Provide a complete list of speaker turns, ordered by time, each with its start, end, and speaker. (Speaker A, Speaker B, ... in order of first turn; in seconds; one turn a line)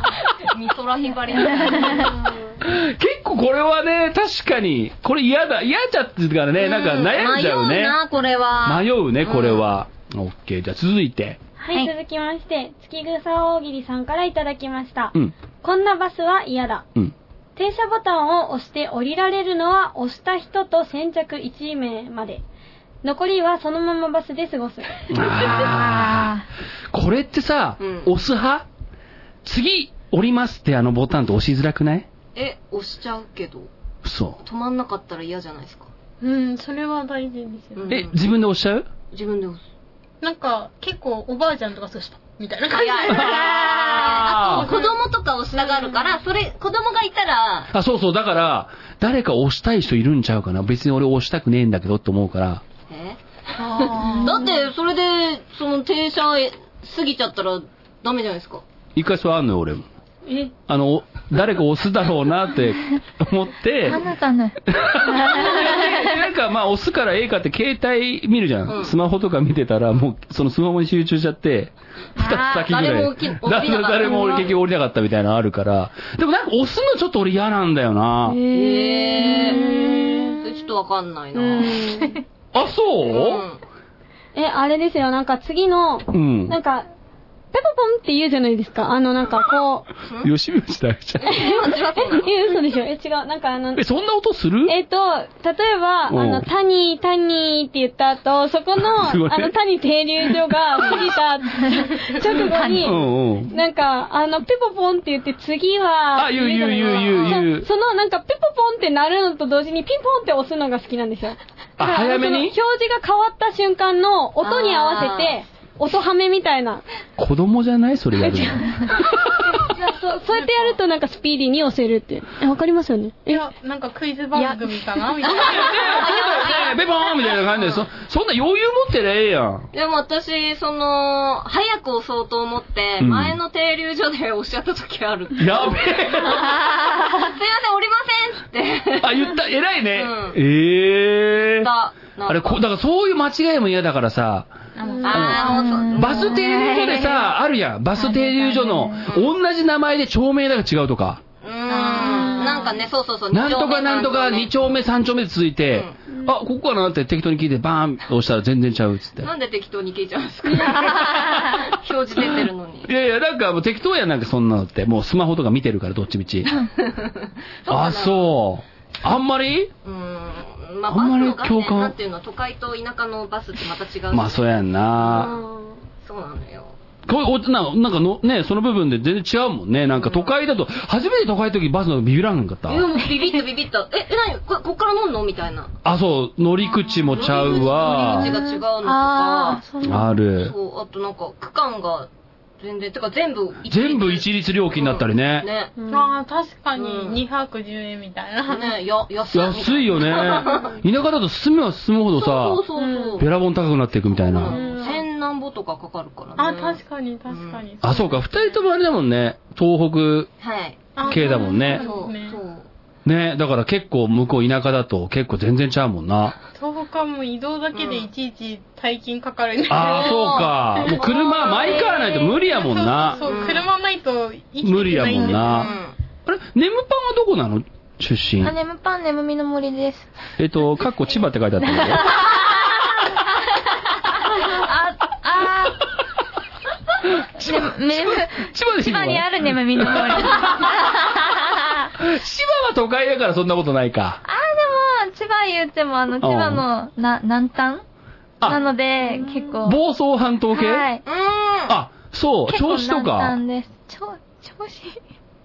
Speaker A: 0.4-2.2
Speaker B: 1.6-2.1
Speaker C: 2.0-2.6
Speaker D: 2.6-8.0
Speaker A: 6.6-9.8
Speaker D: 8.7-11.4
Speaker C: 11.6-16.9
Speaker C: 17.6-22.4
Speaker C: 23.0-25.4
Speaker D: 25.1-26.3
Speaker B: 25.4-26.5
Speaker D: 26.9-28.6
Speaker A: 27.8-28.1
Speaker D: 29.4-32.1
Speaker A: 32.4-33.7
Speaker D: 34.0-34.4
Speaker A: 34.4-35.9
Speaker E: 36.2-37.9
Speaker A: 37.8-38.1
Speaker D: 37.9-38.9
Speaker A: 39.1-39.6
Speaker E: 40.2-43.4
Speaker A: 42.7-47.7
Speaker D: 43.1-44.7
Speaker B: 43.4-44.3
Speaker E: 44.5-45.0
Speaker D: 47.7-52.6
Speaker A: 52.9-58.6
Speaker E: 53.6-54.6
Speaker B: 54.0-54.3
Speaker D: 59.0-59.9
Speaker C: 60.3-60.5
Speaker D: 60.7-64.0
Speaker B: 63.9-66.1
Speaker D: 64.7-78.4
Speaker A: 68.7-68.9
Speaker B: 72.2-72.9
Speaker A: 72.7-74.6
Speaker C: 78.3-80.4
Speaker A: 78.5-79.6
Speaker B: 79.5-80.2
Speaker E: 79.6-80.0
Speaker A: 80.4-81.8
Speaker C: 81.4-82.2
Speaker D: 82.5-83.4
Speaker A: 83.1-83.6
Speaker C: 84.3-86.8
Speaker D: 86.1-86.6
Speaker C: 87.5-89.9
Speaker D: 90.2-91.4
Speaker C: 91.2-93.8
Speaker A: 91.3-92.3
Speaker D: 93.8-94.8
Speaker C: 94.7-103.0
Speaker D: 96.1-96.5
Speaker D: 99.0-99.5
Speaker B: 102.3-102.9
Speaker D: 102.8-103.5
Speaker C: 103.5-116.8
Speaker D: 106.1-107.7
Speaker D: 111.8-112.5
Speaker A: 114.4-115.4
Speaker D: 117.2-119.3
Speaker C: 118.2-123.4
Speaker E: 120.4-120.8
Speaker E: 123.3-126.0
Speaker B: 124.3-124.8
Speaker A: 125.3-127.6
Speaker D: 125.3-129.7
Speaker A: 129.7-139.3
Speaker D: 133.0-133.4
Speaker D: 135.4-136.6
Speaker D: 139.0-141.7
Speaker A: 139.9-140.4
Speaker A: 141.6-142.6
Speaker D: 142.3-144.5
Speaker E: 144.8-145.6
Speaker C: 144.9-145.6
Speaker A: 145.0-146.4
Speaker D: 145.1-151.2
Speaker B: 145.2-147.3
Speaker B: 148.0-149.1
Speaker A: 151.4-154.8
Speaker B: 151.7-152.6
Speaker E: 151.7-152.8
Speaker D: 153.3-159.3
Speaker A: 159.2-162.9
Speaker D: 160.8-161.6
Speaker B: 160.9-161.5
Speaker D: 162.9-166.5
Speaker A: 166.5-168.3
Speaker D: 167.7-169.7
Speaker A: 169.8-175.5
Speaker D: 170.9-171.9
Speaker D: 174.1-175.3
Speaker C: 175.2-175.7
Speaker A: 176.0-176.8
Speaker D: 177.1-182.9
Speaker A: 180.0-180.3
Speaker A: 182.7-185.7
Speaker D: 185.8-188.3
Speaker B: 187.1-190.2
Speaker A: 187.1-189.6
Speaker D: 189.8-190.5
Speaker A: 190.4-192.1
Speaker A: 192.6-195.8
Speaker D: 193.7-195.5
Speaker C: 195.8-196.1
Speaker E: 195.9-198.8
Speaker A: 196.8-197.2
Speaker A: 198.5-200.8
Speaker D: 199.3-202.6
Speaker E: 200.5-200.8
Speaker A: 202.1-203.3
Speaker C: 202.8-203.2
Speaker D: 203.2-204.6
Speaker A: 204.1-207.6
Speaker E: 204.5-205.0
Speaker C: 204.5-204.8
Speaker E: 206.4-208.3
Speaker D: 207.8-210.3
Speaker A: 210.4-212.7
Speaker E: 211.0-212.4
Speaker D: 211.1-211.8
Speaker D: 213.1-216.4
Speaker E: 216.6-225.8
Speaker A: 217.8-218.1
Speaker D: 219.7-223.2
Speaker A: 219.9-222.1
Speaker A: 223.2-223.7
Speaker D: 224.6-225.7
Speaker A: 225.4-225.9
Speaker D: 226.3-228.6
Speaker B: 228.4-230.1
Speaker D: 230.4-232.1
Speaker B: 231.7-232.8
Speaker B: 234.3-235.8
Speaker D: 237.1-244.2
Speaker B: 237.4-241.9
Speaker B: 244.2-247.8
Speaker D: 246.2-246.7
Speaker B: 248.4-249.8
Speaker D: 249.6-250.9
Speaker B: 250.5-251.0
Speaker A: 251.1-251.8
Speaker D: 251.7-253.4
Speaker B: 252.5-255.0